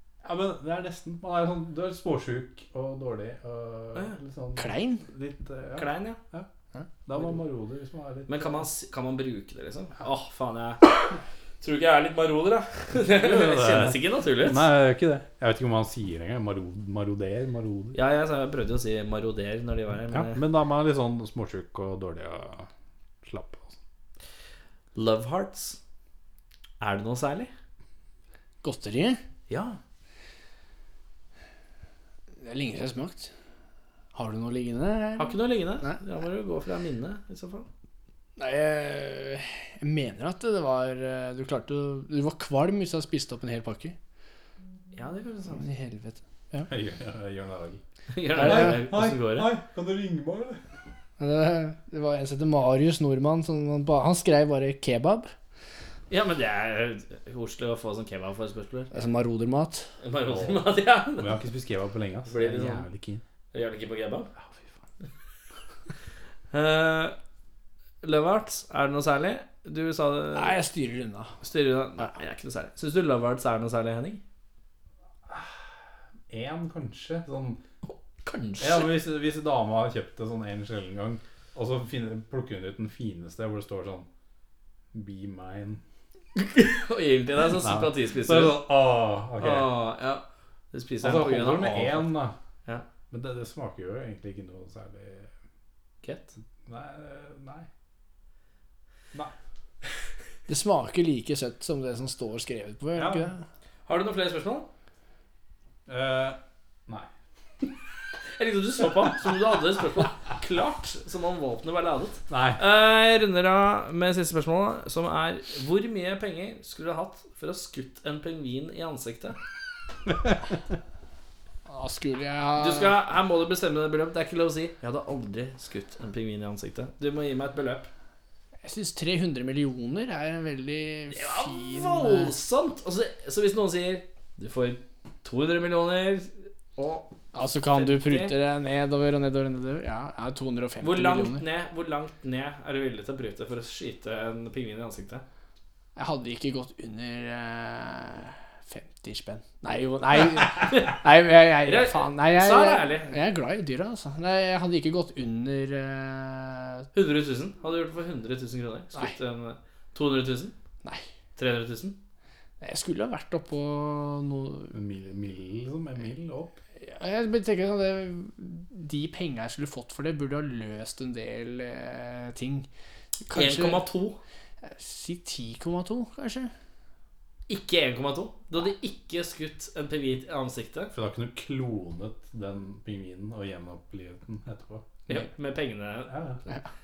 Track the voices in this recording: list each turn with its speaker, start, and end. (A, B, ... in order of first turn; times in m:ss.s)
0:00.2-0:06.5 A
0:04.6-0:05.0 B
0:05.8-0:06.2 C
0:07.1-0:08.6 A
0:08.3-0:11.0 C
0:11.6-0:14.7 C
0:13.1-0:18.0 A
0:17.9-0:20.4 C
0:20.1-0:22.7 A
0:23.2-0:23.8 A
0:25.0-0:25.8 C
0:26.8-0:27.5 C
0:28.6-0:29.2 B
0:29.5-0:29.8 C
0:32.4-0:33.3 B
0:34.1-0:36.0 B
0:35.2-0:37.7 C
0:38.4-0:44.0 B
0:45.0-0:45.7 C
0:45.6-0:46.7 B
0:46.7-0:47.8 A
0:48.1-0:49.5 C
0:48.4-0:48.8 B
0:48.4-0:50.6 A
0:51.2-0:55.3 B
0:56.1-0:58.9 C
0:58.9-0:59.9 B
1:00.0-1:01.4 C
1:00.3-1:00.6 A
1:01.2-1:03.2 A
1:02.3-1:02.9 C
1:03.5-1:04.3 C
1:04.4-1:04.7 A
1:06.5-1:07.2 C
1:08.0-1:10.6 C
1:10.4-1:11.4 B
1:11.4-1:14.2 C
1:15.3-1:15.6 A
1:16.3-1:17.6 A
1:17.9-1:19.0 C
1:18.6-1:24.1 A
1:24.9-1:25.8 A
1:26.4-1:28.6 C
1:27.5-1:29.7 A
1:29.4-1:32.1 C
1:31.0-1:32.4 A
1:33.1-1:35.3 A
1:36.0-1:36.3 C
1:36.7-1:37.7 A
1:40.5-1:43.4 B
1:43.0-1:43.3 A
1:43.9-1:44.7 C
1:45.9-1:47.1 A
1:48.4-1:59.4 C
1:52.3-1:52.6 A
2:00.1-2:00.3 A
2:01.7-2:03.0 B
2:02.6-2:07.9 C
2:08.6-2:12.3 B
2:11.1-2:18.4 C
2:17.3-2:21.5 B
2:20.8-2:25.2 C
2:26.0-2:36.8 B
2:30.6-2:31.0 C
2:31.6-2:33.2 C
2:36.9-2:40.6 C
2:41.4-2:42.0 C
2:42.6-2:44.7 B
2:44.7-2:46.6 A
2:46.8-2:52.7 B
2:53.3-2:53.8 B
2:53.3-2:54.2 C
2:54.6-2:56.5 B
2:57.5-3:00.9 C
3:00.9-3:05.0 A
3:05.1-3:06.1 C
3:06.1-3:06.4 A